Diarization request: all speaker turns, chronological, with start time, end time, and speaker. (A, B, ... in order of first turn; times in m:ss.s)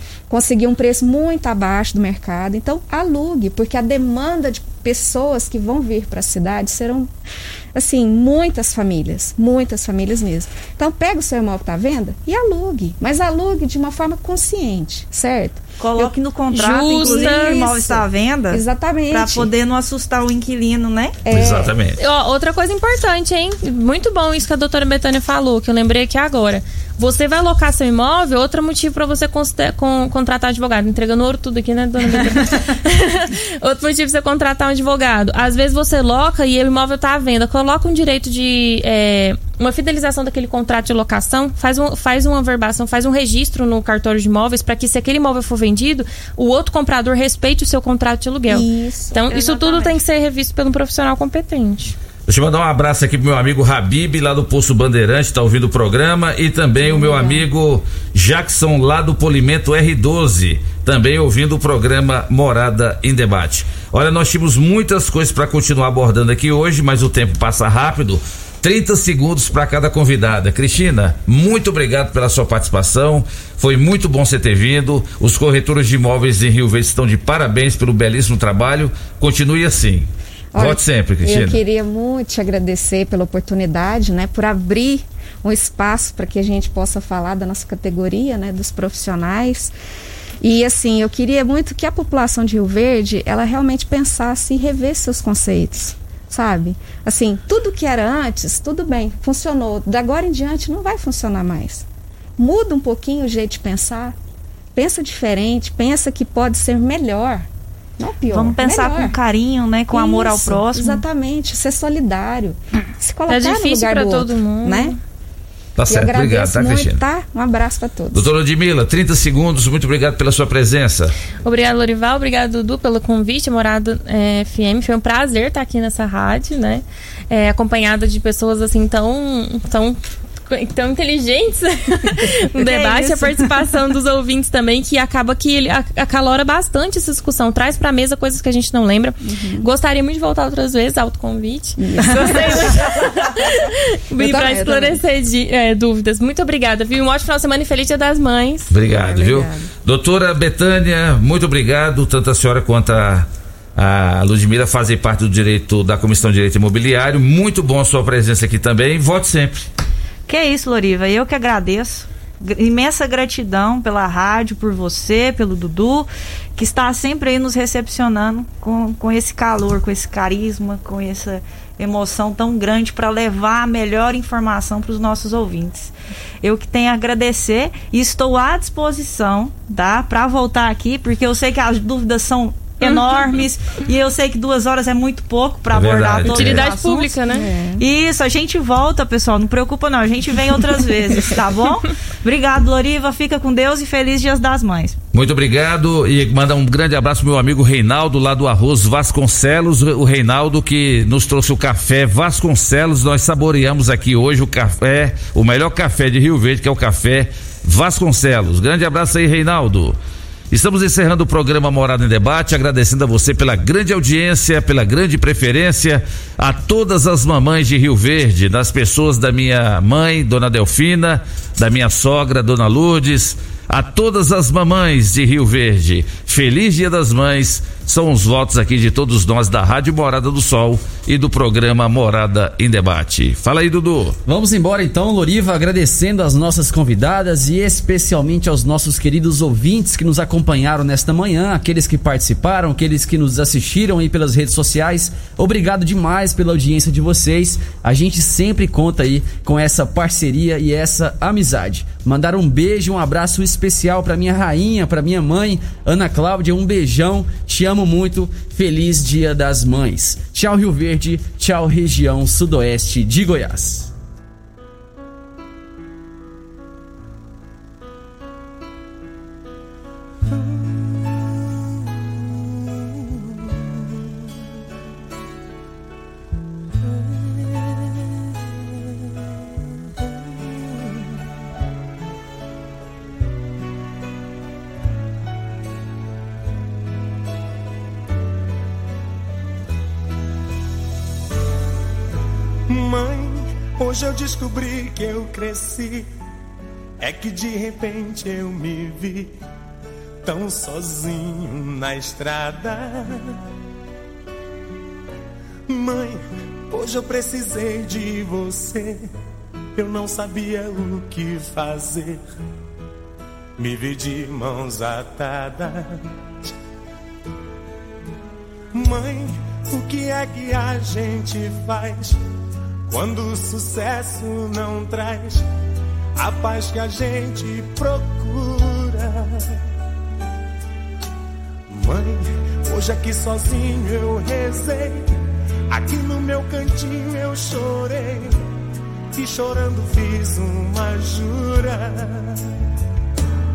0:00.3-0:07.1 A
0:07.7-0:16.1 A
0:15.8-0:21.2 B
0:16.5-0:17.8 C
0:16.9-0:19.5 A
0:21.2-0:21.8 A
0:21.3-0:22.0 D
0:22.0-0:52.0 C
0:48.5-0:49.2 A
0:49.3-0:50.0 B
0:52.3-1:21.6 D
0:56.8-0:57.5 A
1:20.5-1:29.7 A
1:30.4-1:41.9 A
1:42.4-1:44.2 A
1:44.8-1:49.2 A
1:48.3-1:51.0 B
1:49.9-1:55.0 A
1:53.3-1:55.0 C
1:55.8-1:57.0 D
1:55.9-1:58.3 A
1:58.1-2:01.1 D
2:01.4-2:28.7 C
2:12.6-2:13.6 B
2:19.2-2:19.7 A
2:21.8-2:22.8 A
2:24.1-2:25.0 A
2:28.7-2:39.7 D
2:28.9-2:29.7 A
2:40.3-2:55.9 B
2:56.4-3:07.2 B
3:02.8-3:03.4 C
3:05.7-3:06.7 D
3:06.3-3:07.5 C
3:07.3-3:07.8 A
3:07.8-3:15.0 B
3:15.1-3:30.0 D
3:30.5-3:54.2 D
3:54.3-4:23.9 E
4:52.7-4:56.1 F
4:57.0-4:59.3 F
5:00.2-5:03.4 F
5:05.7-5:06.2 F
5:06.7-5:09.1 F
5:09.8-5:12.2 F
5:13.6-5:16.0 F
5:18.7-5:22.2 F
5:22.9-5:25.4 F
5:26.2-5:29.5 F
5:31.7-5:35.1 F
5:35.7-5:38.4 F
5:39.1-5:42.4 F